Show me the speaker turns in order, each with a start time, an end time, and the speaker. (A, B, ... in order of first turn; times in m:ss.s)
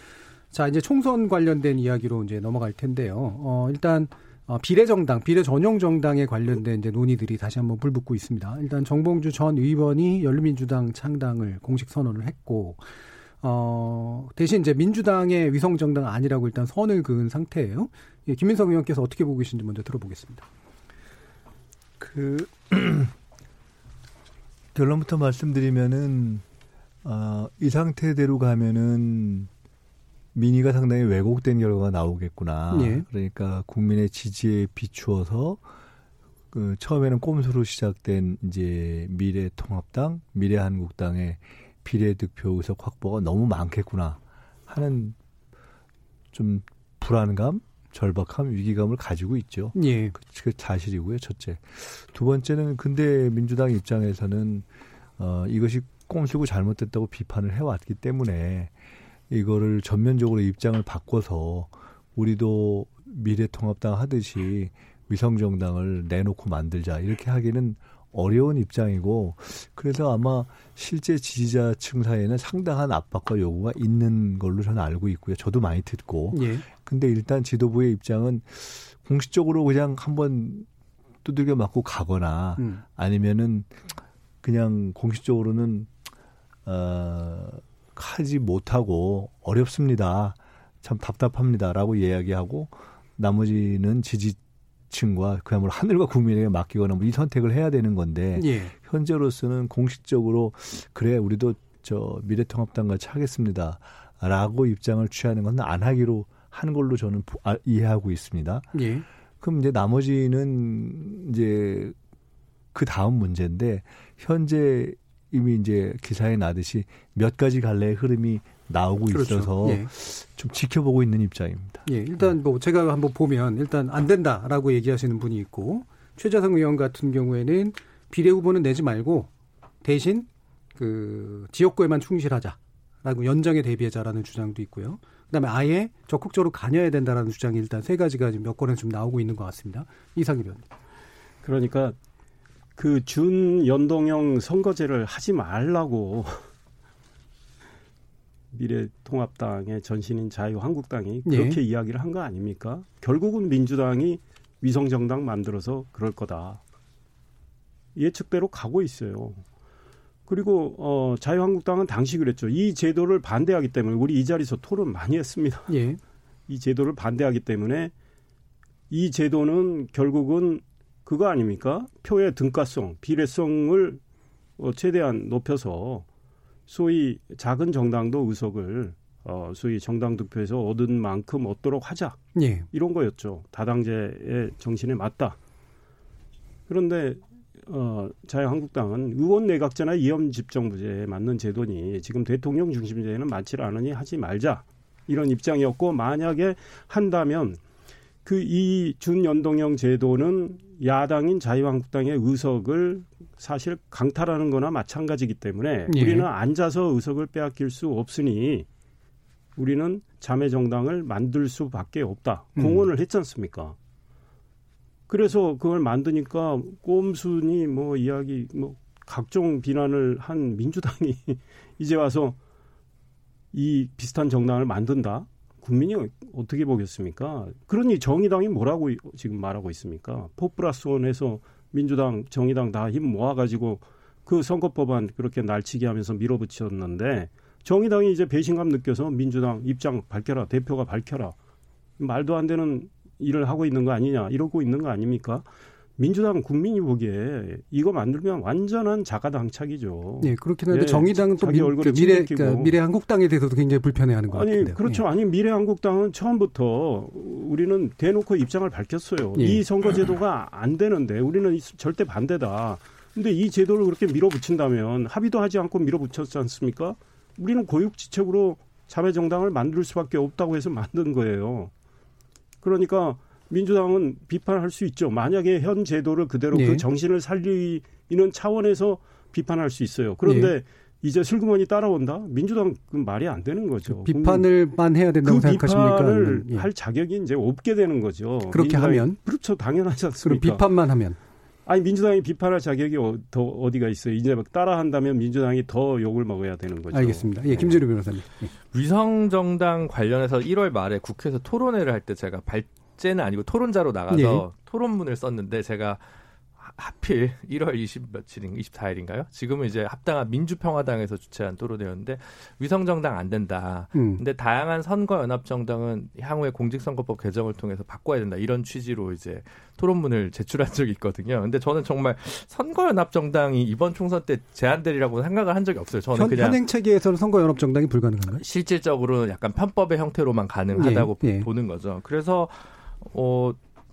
0:00.5-0:12.8 A
0:13.4-0:20.4 A
0:22.0-0:23.1 B
0:24.7-0:26.4 B
0:27.0-0:29.5 B
0:30.3-0:35.6 B
0:32.7-0:33.0 A
0:36.5-0:45.2 B
0:46.3-0:54.6 B
0:49.7-0:50.2 A
0:55.2-0:58.7 B
0:59.3-1:20.7 B
1:16.3-1:16.7 A
1:21.2-1:23.7 B
1:22.6-1:22.8 A
1:24.4-1:25.9 B
1:26.6-1:34.4 B
1:34.9-1:48.7 B
1:38.3-1:38.7 A
1:48.7-1:49.0 A
1:49.4-1:51.9 B
1:52.7-2:01.8 B
1:59.1-1:59.9 A
2:01.8-2:09.3 A
2:09.8-2:20.6 A
2:21.4-2:22.0 C
2:22.8-2:26.4 C
2:28.5-2:36.6 C
2:31.2-2:31.6 A
2:37.9-2:39.4 C
2:40.3-2:45.8 C
2:45.7-2:46.0 A
2:46.5-2:47.9 C
2:48.9-2:54.0 C
2:54.6-2:56.0 C
2:56.7-3:05.4 C
3:02.3-3:02.7 A
3:06.7-3:17.6 C
3:18.2-3:28.7 C
3:25.9-3:26.3 A
3:29.6-3:33.8 C
3:32.6-3:32.9 A
3:35.1-3:42.4 C
3:43.5-4:01.3 C
4:02.0-4:05.4 C
4:06.0-4:12.8 C
4:10.2-4:15.0 A
4:14.3-4:31.7 C
4:19.4-4:19.6 A
4:32.6-4:44.5 C
4:36.5-4:36.8 A
4:40.2-4:40.5 A
4:43.9-4:46.7 A
4:45.2-4:50.6 C
4:48.5-4:49.2 A
4:50.2-4:51.2 A
4:51.6-4:57.8 C
4:56.9-4:58.5 A
4:58.7-5:06.0 D
5:04.1-5:04.4 A
5:06.6-5:26.6 D
5:13.9-5:14.2 A
5:26.1-5:28.4 A
5:28.4-5:33.6 D
5:30.7-5:31.5 A